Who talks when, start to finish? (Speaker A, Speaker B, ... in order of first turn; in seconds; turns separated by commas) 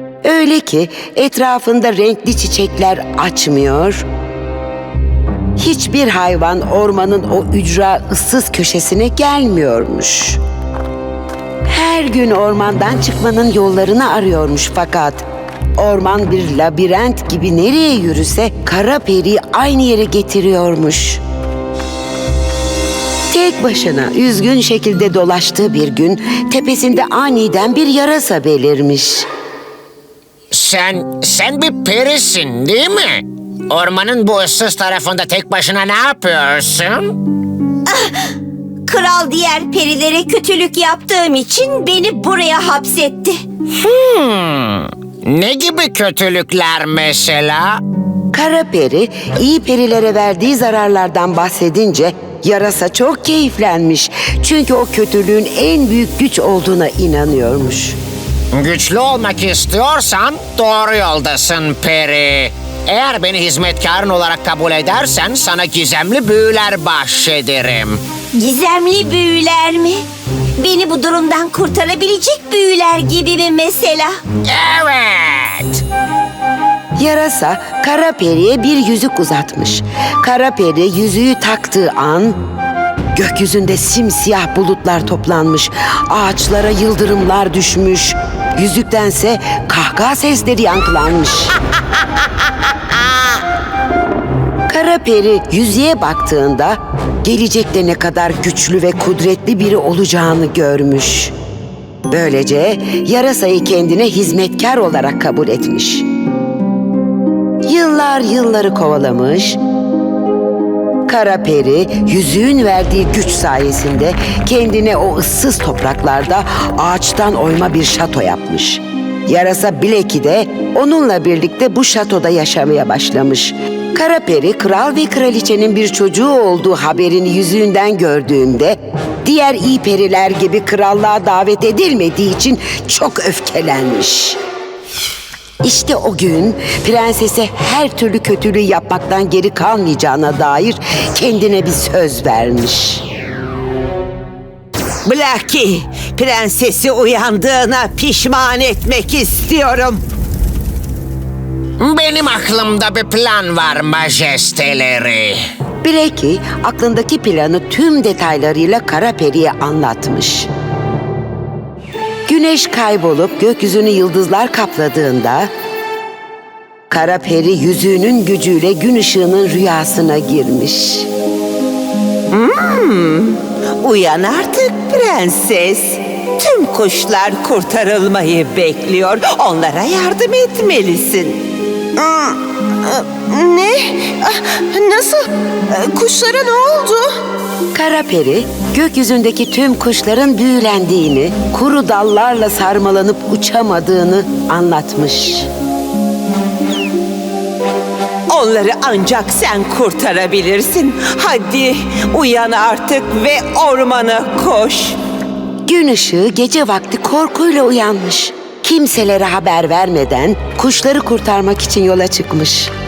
Speaker A: 0.2-4.0, Speaker A: 5.6-10.4, Speaker A: 11.7-15.2, Speaker A: 15.8-21.2, Speaker A: 23.3-29.3, Speaker B: 30.5-37.2, Speaker C: 37.9-38.2, Speaker C: 38.9-43.4, Speaker B: 43.8-47.8, Speaker A: 48.3-58.0, Speaker B: 58.5-68.0, Speaker C: 68.4-70.0, Speaker C: 70.6-74.2, Speaker B: 74.5-75.8, Speaker A: 77.0-82.4, Speaker A: 83.2-91.5, Speaker A: 94.7-101.3, Speaker A: 102.1-106.0, Speaker A: 107.7-109.6, Speaker A: 111.1-134.4, Speaker A: 135.6-143.0, Speaker D: 145.1-150.0, Speaker B: 151.8-155.4, Speaker A: 155.8-160.5, Speaker A: 162.3-165.5, Speaker A: 166.9-171.1, Speaker D: 172.3-181.4, Speaker E: 182.1-182.3, Speaker E: 182.9-187.1, Speaker A: 187.7-195.5, Speaker D: 198.3-205.0, Speaker A: 205.7-212.7